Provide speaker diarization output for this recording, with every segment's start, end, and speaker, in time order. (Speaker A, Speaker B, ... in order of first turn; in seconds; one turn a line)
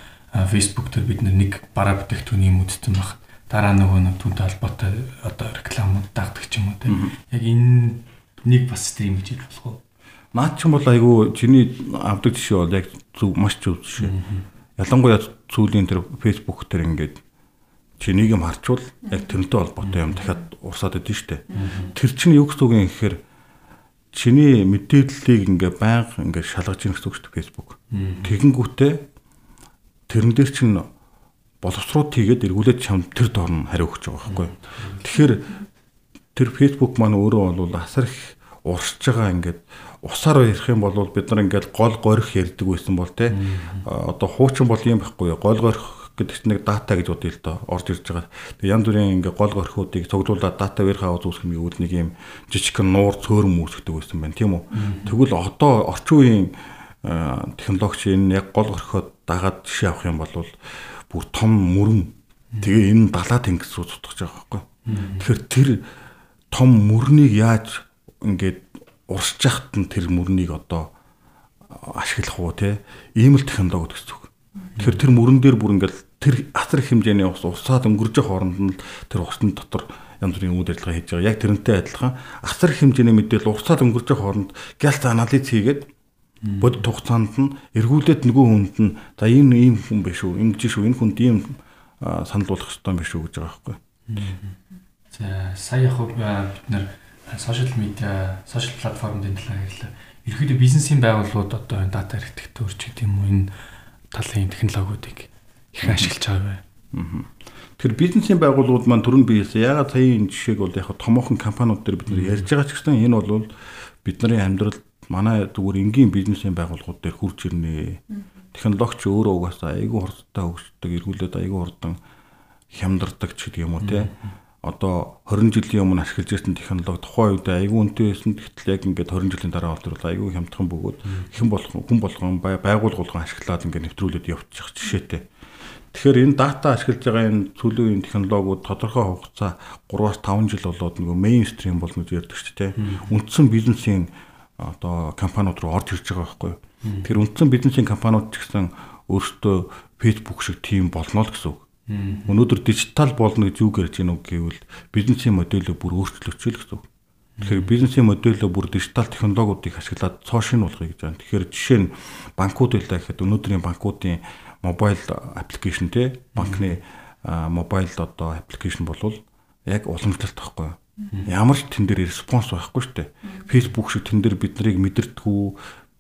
Speaker A: 0.3-9.8
Speaker B: 6.8-7.1
Speaker B: 10.3-14.2
Speaker A: 14.0-14.4
Speaker B: 14.8-17.2
Speaker B: 18.0-23.2
Speaker A: 21.5-21.9
Speaker B: 24.1-29.0
Speaker A: 27.9-28.3
Speaker B: 30.1-30.9
Speaker B: 31.6-35.6
Speaker A: 34.3-35.0
Speaker B: 36.3-65.9
Speaker A: 43.3-43.8
Speaker A: 54.7-55.1
Speaker A: 64.8-65.2
Speaker B: 66.5-70.9
Speaker B: 71.7-85.9
Speaker A: 86.4-86.8
Speaker B: 86.6-93.8
Speaker A: 94.1-94.5
Speaker A: 95.1-103.5
Speaker A: 104.1-106.6
Speaker B: 105.8-106.1
Speaker B: 106.9-113.5
Speaker A: 112.1-112.4
Speaker B: 114.0-122.0
Speaker B: 122.7-124.1
Speaker A: 123.8-124.1
Speaker B: 124.6-135.2
Speaker B: 135.9-151.6
Speaker A: 142.8-143.1
Speaker A: 146.8-147.1
Speaker A: 151.9-152.4
Speaker B: 152.2-156.8
Speaker A: 157.4-157.7
Speaker B: 157.4-175.6
Speaker A: 166.4-166.7